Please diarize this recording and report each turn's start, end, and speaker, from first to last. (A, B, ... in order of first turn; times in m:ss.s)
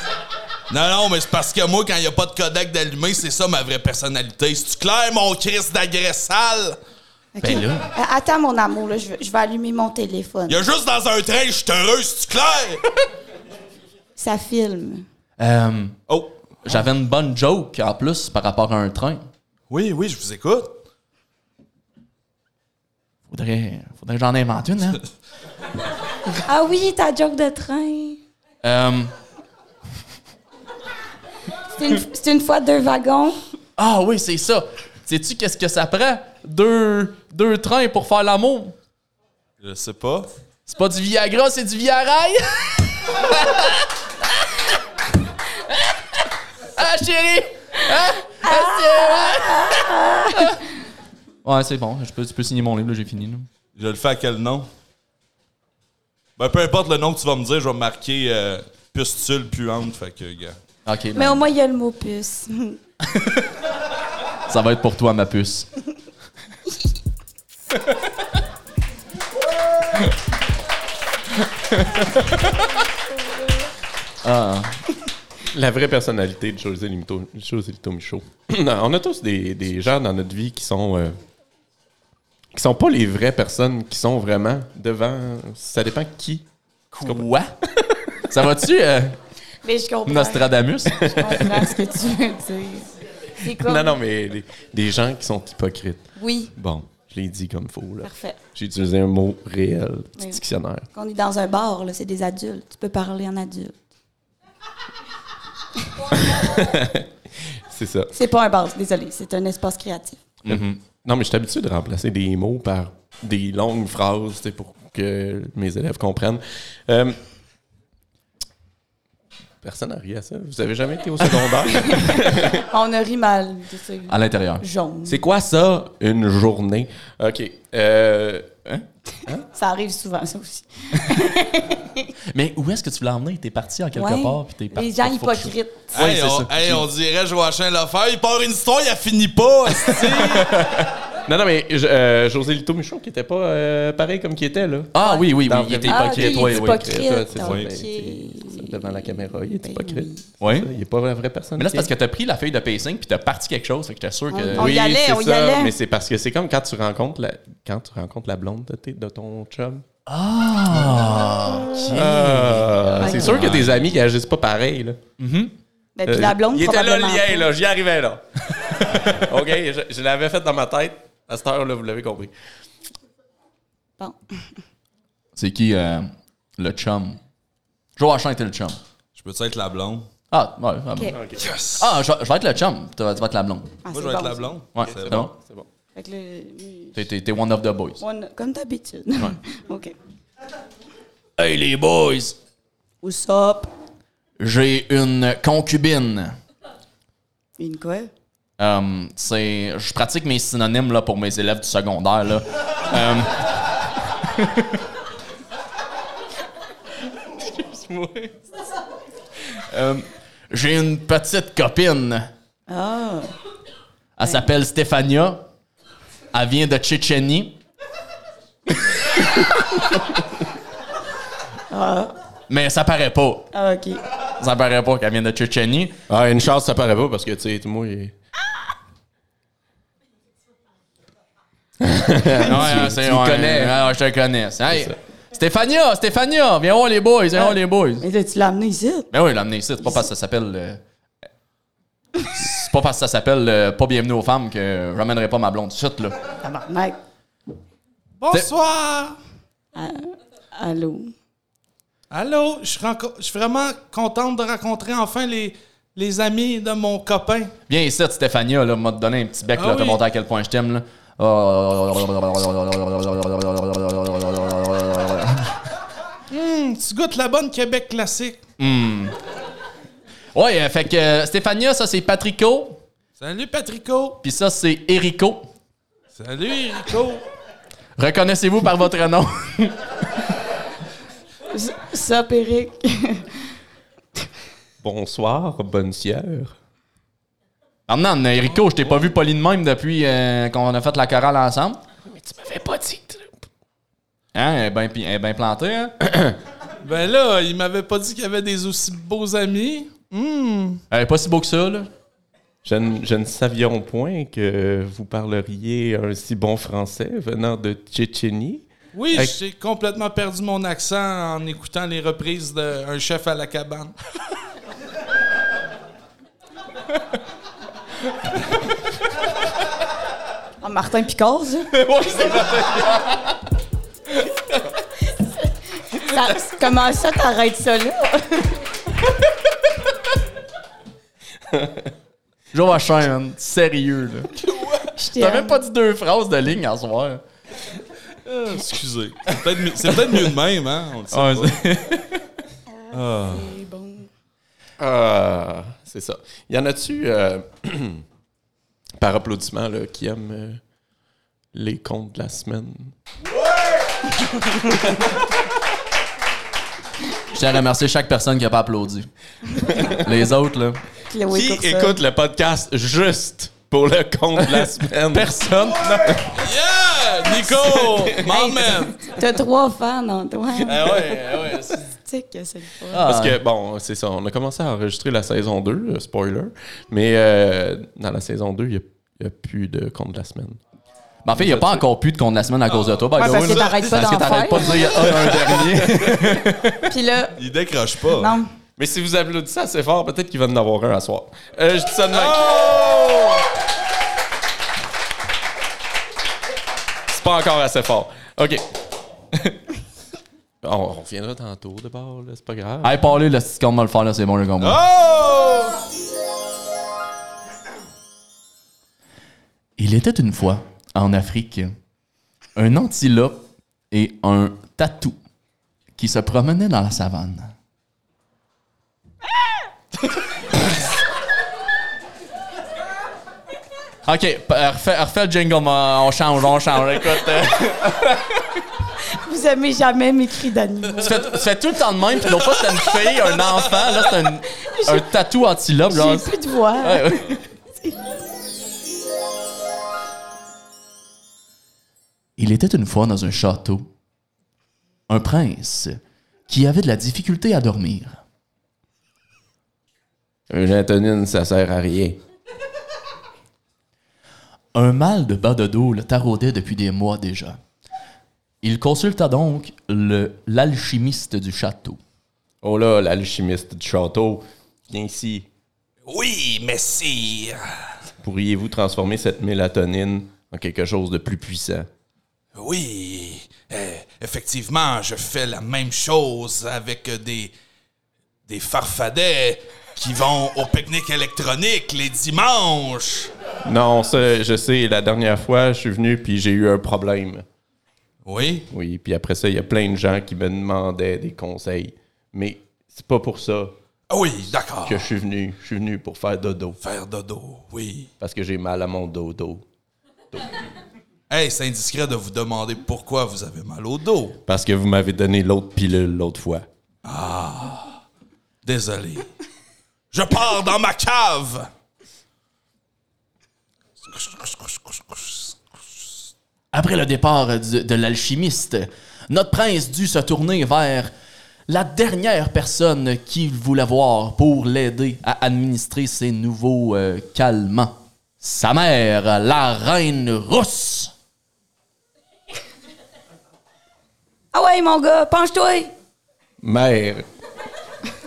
0:00.7-0:06.8 A
0:07.4-0:10.6 B
0:07.4-0:07.9 C
0:10.5-0:12.9 A
0:14.2-0:15.1 B
0:15.4-0:16.0 C
0:16.1-0:16.4 A
0:16.6-0:19.3 C
0:19.7-0:20.7 A
0:23.3-0:25.0 C
0:26.4-0:28.2 B
0:28.6-0:29.1 C
0:31.7-0:33.4 B
0:33.8-0:38.8 C
0:39.6-0:40.3 A
0:40.7-0:43.8 C
0:46.7-0:50.5 C
0:48.4-0:50.6 B
0:51.4-0:53.5 C
0:53.8-0:54.7 A
0:56.4-1:00.6 A
1:00.9-1:01.5 C
1:01.2-1:02.8 B
1:03.0-1:03.5 C
1:04.5-1:05.7 C
1:11.8-1:12.0 C
1:14.2-1:14.8 C
1:15.5-1:21.2 D
1:22.5-1:26.5 D
1:26.9-1:27.5 C
1:27.0-1:27.3 D
1:28.3-1:29.2 C
1:29.6-1:32.9 B
1:30.1-1:31.5 C
1:33.4-1:34.0 B
1:33.4-1:40.9 D
1:36.2-1:36.5 B
1:38.0-1:38.4 B
1:40.9-1:43.8 B
1:46.2-1:48.1 D
1:48.1-1:50.2 B
1:50.4-1:50.8 C
1:50.5-1:57.2 D
1:59.6-2:02.6 D
2:01.8-2:05.2 B
2:04.1-2:04.6 C
2:05.0-2:08.5 D
2:09.4-2:12.1 B
2:12.3-2:16.8 C
2:13.9-2:15.8 B
2:15.9-2:20.6 A
2:20.2-2:20.8 C
2:21.3-2:31.9 D
2:24.9-2:27.0 C
2:25.0-2:25.3 B
2:25.8-2:30.2 B
2:27.4-2:27.7 A
2:30.4-2:30.7 C
2:31.6-2:34.8 C
2:34.3-2:35.8 B
2:34.5-2:39.8 D
2:40.1-2:43.7 C
2:40.7-2:41.0 D
2:41.8-2:45.0 D
2:43.3-2:43.9 A
2:45.2-2:45.6 C
2:46.0-2:47.5 B
2:46.1-2:52.3 D
2:54.0-2:54.5 B
2:55.4-2:57.2 C
2:58.0-2:58.8 C
2:59.2-3:00.1 A
3:00.3-3:01.2 C
3:01.0-3:01.5 D
3:01.4-3:01.9 A
3:01.8-3:03.8 C
3:03.8-3:04.6 B
3:03.9-3:05.3 A
3:04.8-3:05.3 C
3:04.8-3:05.7 D
3:06.0-3:07.0 B
3:07.0-3:08.0 C
3:08.0-3:10.0 B
3:11.4-3:12.4 C
3:13.0-3:13.7 B
3:14.4-3:16.4 C
3:17.6-3:18.1 B
3:18.6-3:23.5 C
3:24.2-3:24.7 C
3:27.3-3:28.4 C
3:29.5-3:32.3 C
3:32.7-3:33.3 B
3:34.2-3:35.4 C
3:36.3-3:37.6 C
3:41.7-3:42.2 B
3:42.5-3:43.5 C
3:43.5-3:44.0 B
3:44.4-3:46.0 C
3:46.1-3:48.2 D
3:51.8-3:53.8 D
3:52.3-3:58.1 C
3:57.4-3:59.1 B
3:59.1-4:00.8 C
4:02.3-4:06.2 C
4:06.4-4:07.0 B
4:08.2-4:09.2 A
4:09.8-4:11.1 B
4:12.1-4:17.5 A
4:17.7-4:25.6 C
4:19.6-4:20.0 A
4:26.3-4:28.4 A
4:28.6-4:29.2 C
4:30.3-4:32.8 C
4:33.2-4:34.2 A
4:34.2-4:35.5 C
4:36.2-4:37.2 A
4:38.0-4:39.8 C
4:41.5-4:43.4 B
4:44.8-4:46.6 D
4:47.9-4:51.8 C
4:52.0-4:53.4 D
4:54.3-4:56.1 C
4:56.8-5:00.8 A
5:00.9-5:01.9 C
5:02.6-5:09.4 D
5:08.9-5:13.9 A
5:20.6-5:21.7 B
5:21.8-5:23.2 C
5:25.2-5:28.6 B
5:32.5-5:34.4 C
5:34.9-5:35.6 B
5:35.1-5:37.2 C
5:38.2-5:41.6 A
5:41.1-5:42.2 C
5:42.9-5:44.1 B
5:42.9-5:43.5 A
5:44.8-5:48.0 D
5:49.0-5:50.6 D
5:51.5-5:53.0 D
5:57.3-6:00.8 C
6:01.1-6:02.0 B
6:01.3-6:05.4 D
6:05.1-6:06.3 C
6:05.9-6:06.3 D
6:06.3-6:09.1 A
6:07.6-6:08.0 C
6:07.9-6:08.2 D
6:08.2-6:11.0 B
6:10.7-6:11.8 C
6:11.0-6:11.4 D
6:11.9-6:13.1 B
6:12.9-6:13.4 C
6:13.0-6:20.6 D
6:21.2-6:26.9 C
6:21.4-6:21.9 D
6:22.7-6:23.8 A
6:23.2-6:25.0 B
6:25.4-6:26.1 D
6:26.9-6:27.4 B
6:27.4-6:28.4 A
6:28.2-6:28.5 B
6:28.8-6:32.9 D
6:32.1-6:33.4 A
6:37.1-6:38.6 D
6:40.6-6:43.1 D
6:42.8-6:44.8 C
6:44.6-6:45.8 A
6:49.8-6:51.8 C
6:52.6-6:55.2 C
6:56.0-6:57.5 C
7:04.0-7:08.4 C
7:09.1-7:11.1 B
7:11.0-7:17.4 C
7:14.6-7:15.1 B
7:15.9-7:18.1 B
7:22.4-7:23.9 C
7:25.1-7:28.2 C
7:30.5-7:32.2 D
7:34.7-7:37.6 C
7:38.6-7:42.0 C
7:42.6-7:45.5 D
7:46.1-7:47.6 A
7:48.2-7:51.9 D
7:52.6-7:57.5 A
7:58.5-8:03.3 A
8:03.6-8:07.5 D
8:08.2-8:08.7 A
8:08.7-8:13.7 D
8:14.1-8:15.1 A
8:14.8-8:16.8 D
8:16.8-8:18.1 A
8:18.2-8:19.6 D
8:21.3-8:24.4 A
8:24.5-8:26.7 D
8:27.0-8:28.0 A
8:28.6-8:29.3 A
8:30.1-8:31.7 A
8:34.0-8:35.5 A
8:36.7-8:41.1 C
8:41.7-8:51.1 C
8:54.5-8:55.9 B
8:56.6-8:57.2 D